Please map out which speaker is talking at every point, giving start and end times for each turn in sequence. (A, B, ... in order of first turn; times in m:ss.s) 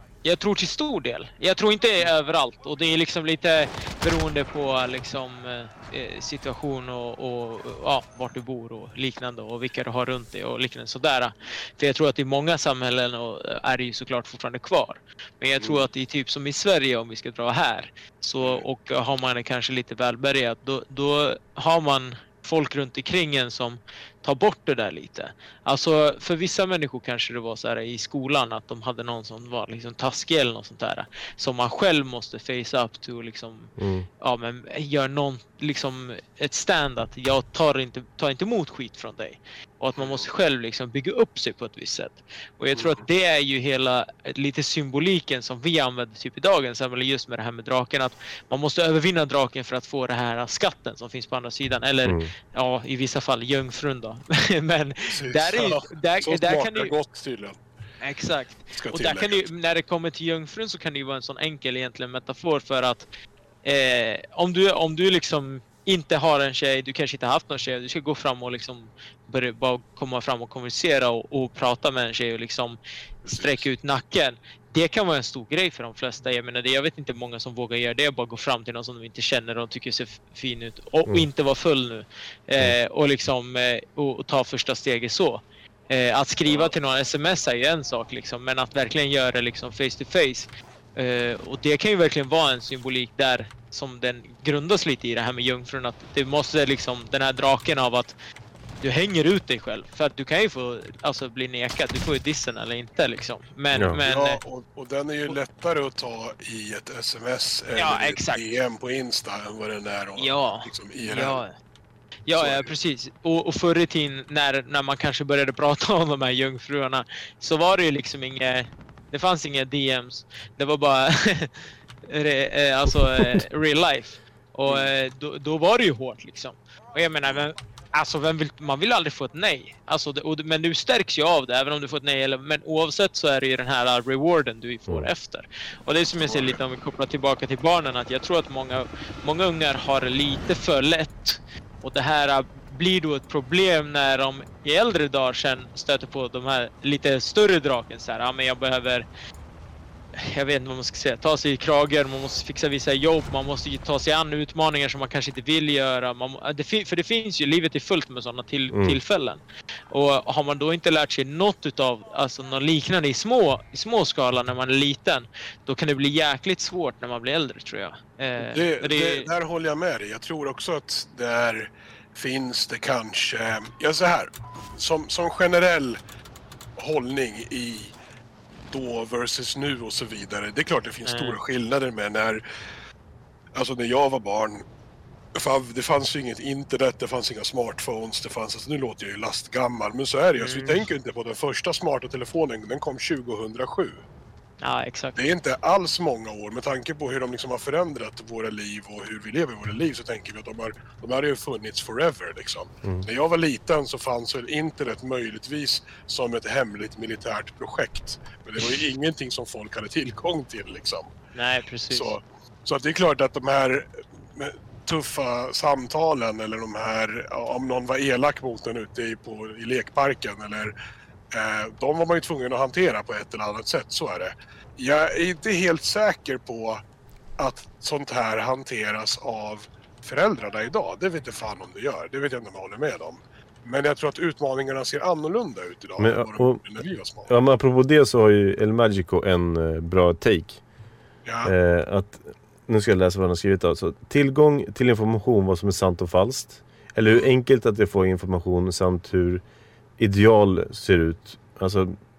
0:00.2-0:56.9 A
0:15.6-0:15.8 B
0:18.4-0:18.6 B
0:33.8-0:34.1 C
0:40.0-0:40.3 B
0:42.8-0:43.0 B
0:52.0-0:52.3 C
0:55.1-0:57.6 B
0:58.0-1:03.0 A
0:58.7-0:59.4 B
1:03.6-1:38.1 A
1:13.2-1:13.6 B
1:38.8-1:44.4 A
1:43.7-1:44.0 C
1:44.0-1:51.4 B
1:47.8-1:48.4 A
1:50.2-1:51.5 A
1:52.3-2:29.0 A
1:52.3-1:52.7 B
2:16.2-2:16.6 B
2:30.2-2:49.3 A
2:38.7-2:39.0 C
2:48.4-2:56.0 B
2:56.8-2:57.9 B
2:58.7-3:02.4 B
3:01.0-3:01.4 A
3:03.5-3:04.6 B
3:05.3-3:14.0 B
3:10.4-3:10.8 A
3:14.6-3:15.2 A
3:15.2-3:31.1 B
3:31.3-3:32.1 A
3:31.9-3:40.7 B
3:41.3-3:46.8 B
3:47.4-3:57.3 B
3:56.0-3:56.6 C
3:57.3-4:00.6 C
4:01.2-4:01.5 B
4:01.4-4:09.4 C
4:10.0-4:11.9 C